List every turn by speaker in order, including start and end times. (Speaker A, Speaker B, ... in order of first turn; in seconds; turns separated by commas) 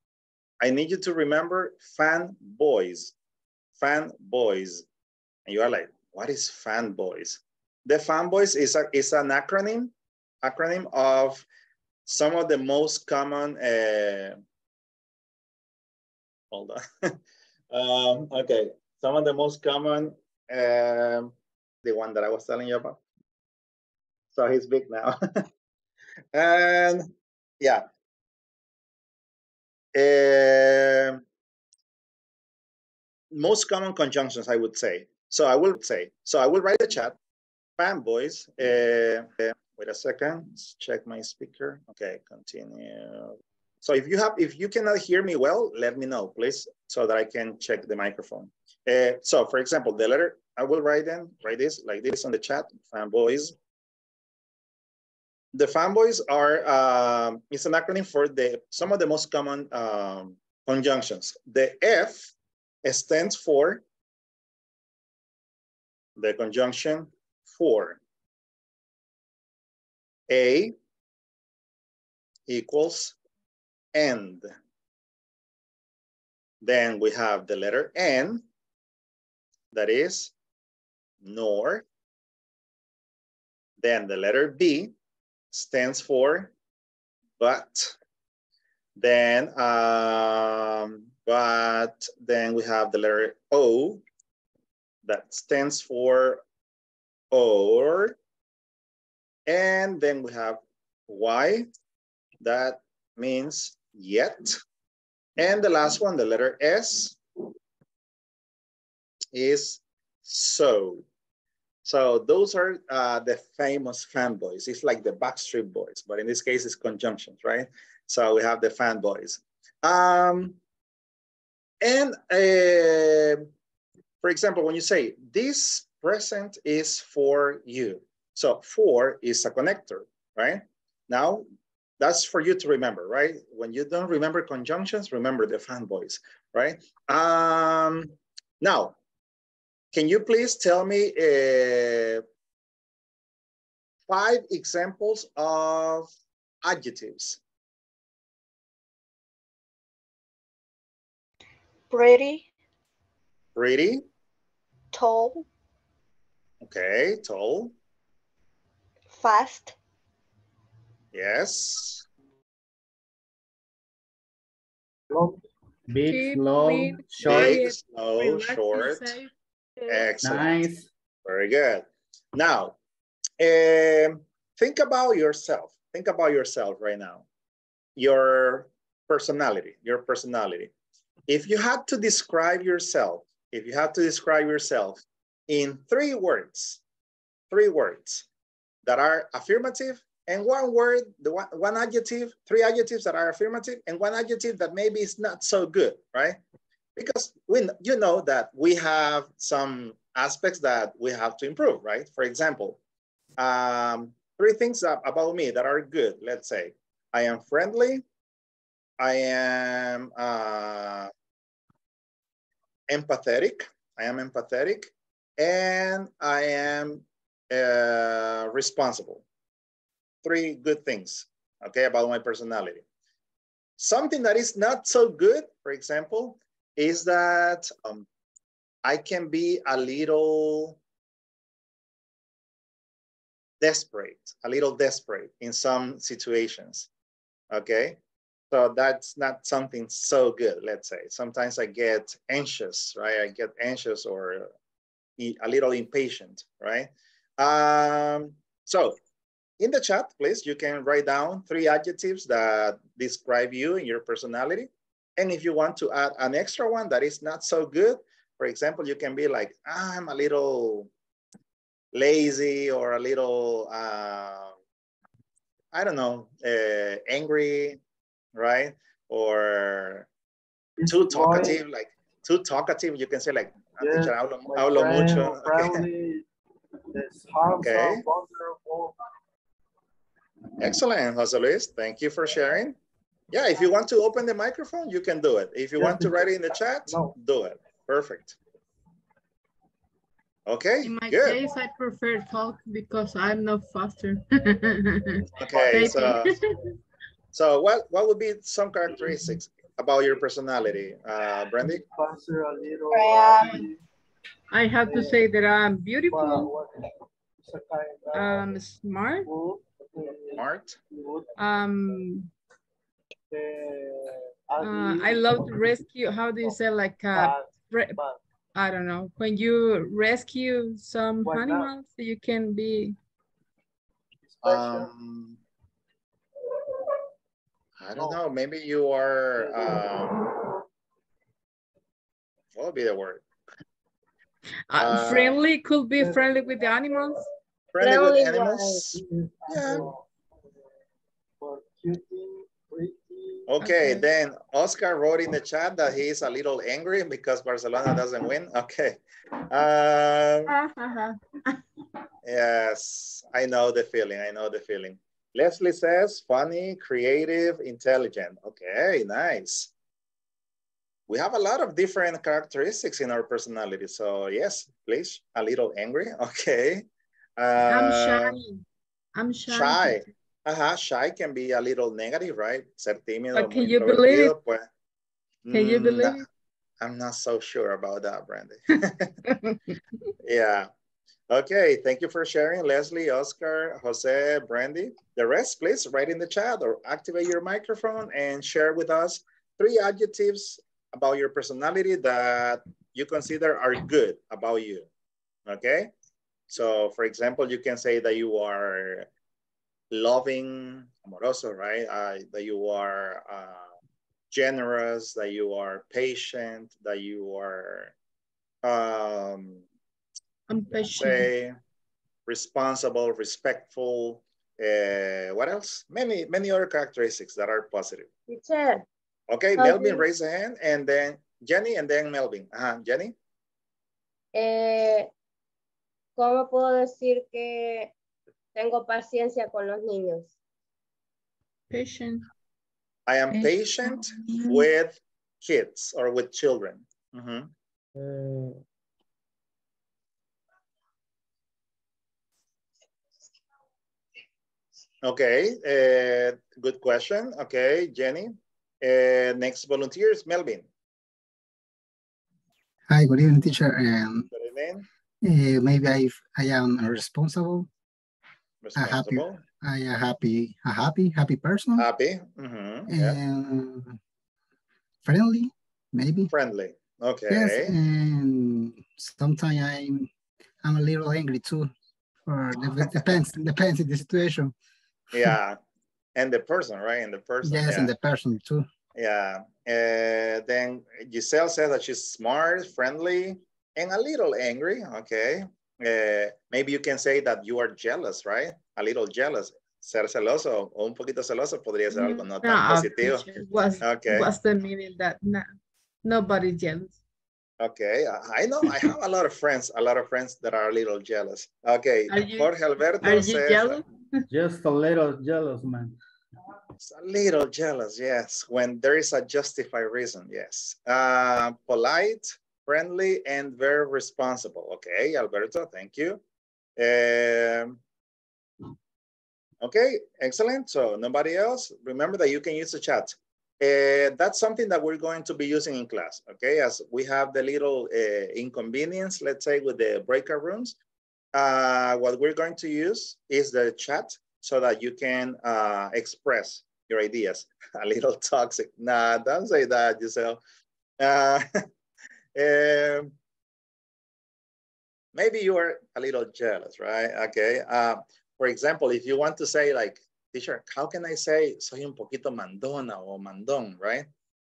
Speaker A: 0.6-3.1, Speaker A: 3.8-4.8, Speaker A: 5.5-9.9, Speaker A: 10.4-11.4, Speaker A: 12.1-14.4, Speaker A: 16.5-17.2, Speaker A: 17.7-21.3, Speaker A: 21.8-23.0, Speaker A: 24.4-25.2, Speaker A: 26.3-27.1, Speaker A: 27.6-27.9, Speaker A: 29.9-31.2, Speaker A: 33.3-37.2, Speaker A: 37.8-53.5, Speaker A: 55.5-62.3, Speaker A: 62.8-63.8, Speaker A: 66.2-68.0, Speaker A: 70.3-70.7, Speaker A: 72.5-73.2, Speaker A: 73.9-74.5, Speaker A: 76.6-78.4, Speaker A: 79.7-80.3, Speaker A: 81.2-81.8, Speaker A: 83.8-84.9, Speaker A: 85.5-86.5, Speaker A: 87.4-88.0, Speaker A: 89.0-94.0, Speaker A: 95.0-96.4, Speaker A: 97.3-98.2, Speaker A: 99.5-101.7, Speaker A: 102.4-104.6, Speaker A: 105.4-107.2, Speaker A: 109.3-111.0, Speaker A: 111.8-120.6, Speaker A: 121.8-123.5, Speaker A: 124.2-131.4, Speaker A: 132.0-138.9, Speaker A: 139.9-142.2, Speaker A: 144.1-146.1, Speaker A: 146.6-147.4, Speaker B: 151.9-152.5, Speaker A: 153.6-154.0, Speaker B: 154.9-155.4, Speaker A: 156.6-157.7, Speaker B: 159.1-159.8, Speaker A: 161.1-162.1, Speaker C: 165.1-165.4, Speaker D: 165.9-167.7, Speaker E: 166.1-170.1, Speaker A: 167.2-169.2, Speaker A: 169.9-170.7, Speaker D: 170.2-170.9, Speaker A: 171.2-172.8, Speaker A: 173.4-177.2, Speaker A: 177.9-180.7, Speaker A: 181.3-186.8, Speaker A: 187.5-188.2, Speaker A: 188.8-196.4, Speaker A: 196.9-202.8, Speaker A: 203.4-208.0, Speaker A: 209.0-211.1, Speaker A: 212.9-219.2, Speaker A: 220.2-222.8, Speaker A: 223.8-228.1, Speaker A: 228.8-230.8, Speaker A: 233.6-236.9, Speaker A: 237.5-238.0, Speaker A: 238.5-244.5, Speaker A: 245.2-249.0, Speaker A: 249.6-260.9, Speaker A: 261.9-264.5, Speaker A: 265.7-267.8, Speaker A: 268.3-270.1, Speaker C: 270.8-271.6, Speaker A: 270.9-275.8, Speaker C: 273.8-276.2, Speaker C: 276.9-278.9, Speaker A: 277.6-278.1, Speaker A: 280.6-282.8, Speaker A: 283.3-288.4, Speaker C: 285.8-287.2, Speaker A: 290.5-291.4, Speaker E: 290.8-296.4, Speaker C: 295.4-296.2, Speaker A: 295.4-296.3, Speaker A: 297.3-301.8, Speaker C: 301.6-303.8, Speaker B: 302.9-303.7, Speaker E: 304.5-306.5, Speaker C: 304.8-305.2, Speaker C: 306.1-306.8, Speaker C: 307.4-308.5, Speaker E: 308.1-309.3, Speaker C: 309.3-311.3, Speaker A: 310.3-310.8, Speaker E: 311.4-312.3, Speaker C: 313.3-315.9, Speaker E: 314.6-318.0, Speaker C: 317.1-318.2, Speaker E: 318.6-322.9, Speaker C: 321.2-321.7, Speaker C: 324.3-324.9, Speaker A: 324.4-325.4, Speaker A: 327.8-330.1, Speaker C: 327.9-328.2, Speaker C: 329.4-330.0, Speaker A: 332.6-333.2, Speaker E: 334.7-337.3, Speaker A: 334.8-335.4, Speaker C: 336.0-336.4, Speaker A: 337.7-339.9, Speaker F: 337.8-338.8, Speaker C: 338.9-340.1, Speaker C: 341.4-343.5, Speaker A: 343.5-350.5, Speaker E: 343.6-344.1, Speaker E: 350.5-351.2, Speaker A: 352.2-359.7, Speaker A: 361.1-366.8, Speaker A: 367.4-368.4, Speaker E: 367.7-368.6, Speaker E: 369.2-370.0, Speaker A: 369.5-374.7, Speaker E: 373.3-374.4, Speaker A: 375.4-376.2, Speaker E: 375.5-376.2, Speaker A: 376.8-379.1, Speaker E: 379.3-379.6, Speaker A: 380.2-380.7, Speaker A: 381.3-394.9, Speaker A: 395.5-395.9, Speaker A: 396.5-399.1, Speaker A: 399.9-403.7, Speaker A: 404.3-407.9, Speaker A: 408.6-409.6, Speaker E: 410.5-411.3, Speaker A: 410.8-411.6, Speaker A: 412.3-418.1, Speaker F: 418.3-418.8, Speaker A: 419.3-423.1, Speaker F: 419.6-420.1, Speaker F: 424.3-425.1, Speaker F: 426.2-427.9, Speaker F: 428.6-430.3, Speaker E: 431.7-432.2, Speaker A: 433.1-437.5, Speaker F: 438.0-438.6, Speaker A: 445.0-450.7, Speaker G: 452.9-454.3, Speaker A: 454.3-454.8, Speaker G: 455.2-457.7, Speaker A: 458.6-459.4, Speaker G: 458.8-461.9, Speaker A: 461.8-463.2, Speaker G: 462.9-464.0, Speaker G: 465.1-466.3, Speaker A: 466.3-467.7, Speaker G: 467.3-470.1, Speaker G: 470.6-471.7, Speaker G: 472.3-474.5, Speaker A: 475.1-475.6, Speaker A: 476.1-477.9, Speaker G: 477.4-478.7, Speaker A: 478.9-493.3, Speaker E: 491.9-495.4, Speaker A: 493.8-494.3, Speaker E: 496.0-496.9, Speaker A: 497.6-503.8, Speaker E: 502.1-503.9, Speaker D: 504.3-505.9, Speaker A: 506.8-516.2, Speaker A: 516.8-517.8, Speaker A: 519.6-530.8, Speaker A: 531.3-540.4, Speaker A: 541.0-541.4, Speaker A: 542.4-543.1, Speaker A: 545.1-554.1